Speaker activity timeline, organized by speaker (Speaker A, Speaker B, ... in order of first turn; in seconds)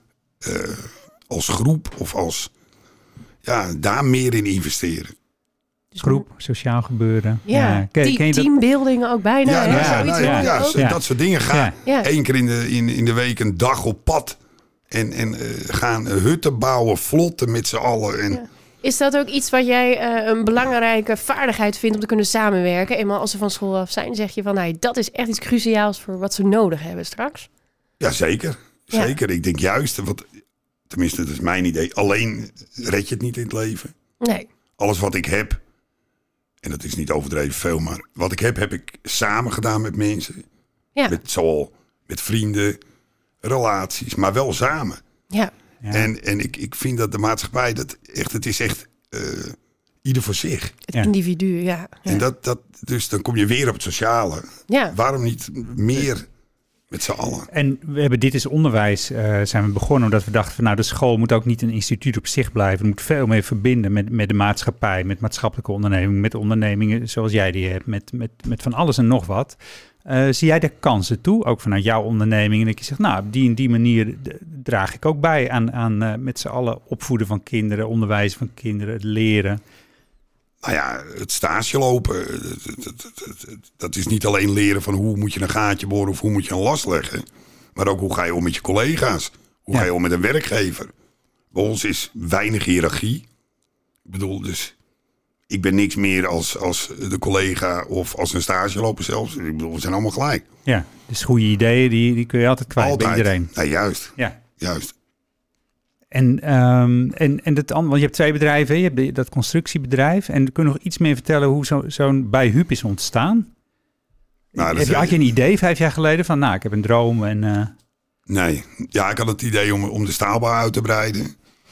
Speaker A: 0.4-2.5, 3.4-5.1, 9.4-14.4, 14.9-18.4, 28.0-30.2, 30.9-33.9, 34.8-35.6, 36.6-40.4, 41.1-42.8, 43.4-45.0, 45.9-50.8, 52.0-56.3, 56.9-57.5, 80.6-90.9, 91.5-93.2, 94.0-94.7, 95.5-100.5, 102.8-104.9, 114.5-115.2, 118.3-121.3
Speaker B: 5.9-6.2, 7.5-10.8, 18.3-27.5, 34.2-34.5, 50.9-52.2, 54.7-54.9
Speaker C: 6.0-8.5, 9.6-11.7, 45.8-46.1, 57.5-79.6, 100.7-103.5, 106.1-113.5, 114.5-117.7